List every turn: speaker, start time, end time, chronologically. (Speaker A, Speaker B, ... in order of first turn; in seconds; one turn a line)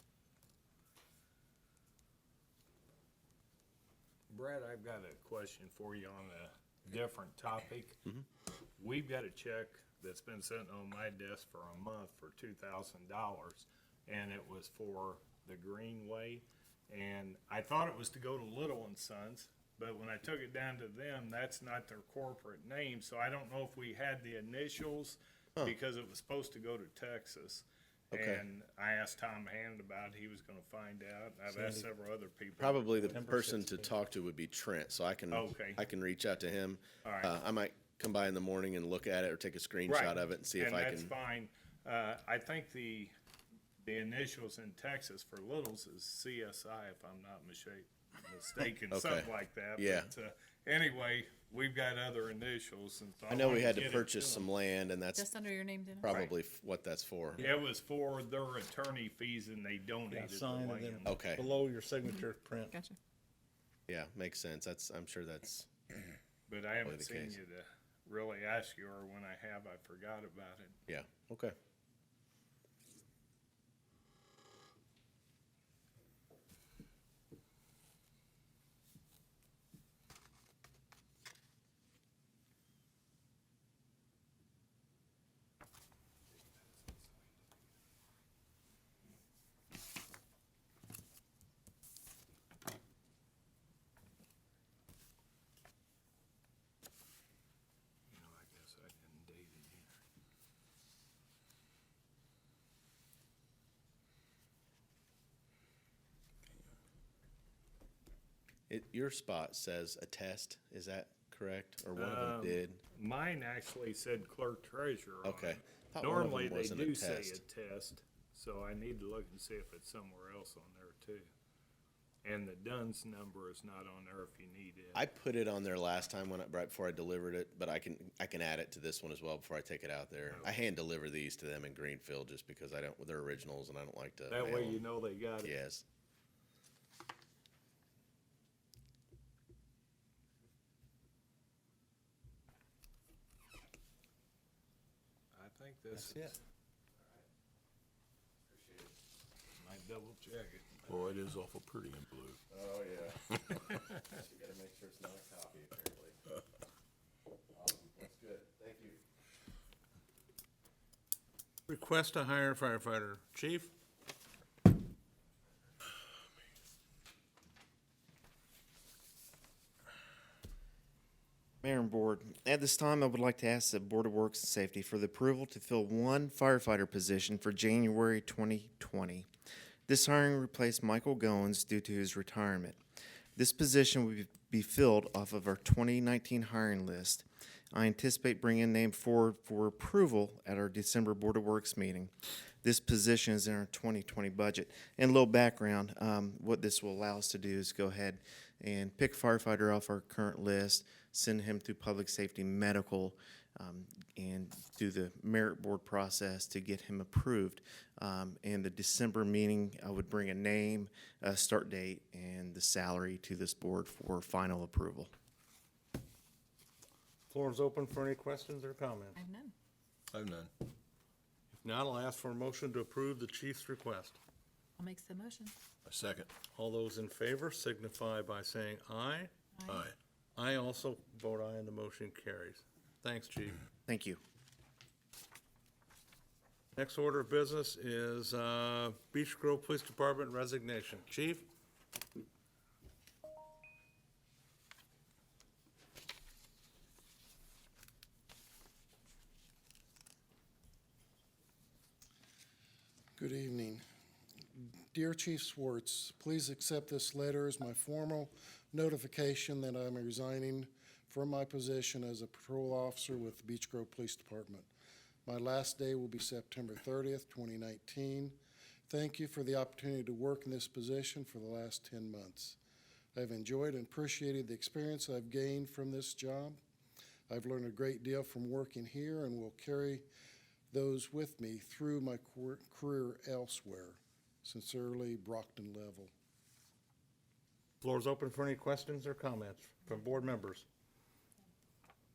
Speaker A: 4.3-8.0
Speaker A: 8.8-33.2
Speaker B: 28.1-28.4
Speaker C: 31.5-31.8
Speaker B: 32.6-41.1
Speaker C: 33.1-33.9
Speaker A: 35.3-35.8
Speaker A: 37.0-37.4
Speaker A: 39.9-43.1
Speaker A: 43.8-54.5
Speaker B: 48.9-50.1
Speaker B: 53.3-55.3
Speaker D: 55.1-56.3
Speaker B: 56.0-57.4
Speaker A: 56.0-56.3
Speaker A: 57.4-61.2
Speaker C: 60.1-62.8
Speaker B: 61.1-61.5
Speaker D: 62.0-63.0
Speaker B: 63.9-65.7
Speaker A: 66.5-70.8
Speaker B: 66.8-67.4
Speaker B: 70.9-71.5
Speaker A: 98.1-99.9
Speaker B: 108.7-112.8
Speaker A: 111.9-121.3
Speaker B: 115.2-117.4
Speaker A: 122.2-125.0
Speaker B: 124.9-134.8
Speaker A: 134.3-135.5
Speaker B: 135.4-135.8
Speaker A: 145.3-146.4
Speaker C: 145.9-146.3
Speaker B: 148.5-148.9
Speaker A: 149.6-151.2
Speaker E: 150.8-152.4
Speaker B: 152.5-153.3
Speaker B: 154.1-156.2
Speaker B: 157.5-159.0
Speaker C: 161.7-163.7
Speaker F: 171.6-179.3
Speaker F: 179.9-182.8
Speaker F: 183.3-192.1
Speaker F: 192.6-215.1
Speaker C: 217.3-219.2
Speaker D: 219.1-219.5
Speaker E: 220.1-220.5
Speaker C: 221.5-224.2
Speaker D: 224.8-225.5
Speaker E: 225.8-226.3
Speaker C: 226.4-229.3
Speaker D: 229.5-229.8
Speaker E: 229.7-229.9
Speaker C: 230.3-233.6
Speaker F: 233.8-234.2
Speaker C: 236.8-241.4
Speaker G: 253.2-253.8
Speaker G: 254.6-264.7
Speaker G: 265.2-272.6
Speaker G: 273.1-276.6
Speaker G: 277.3-280.1
Speaker G: 280.7-286.1
Speaker C: 287.8-290.6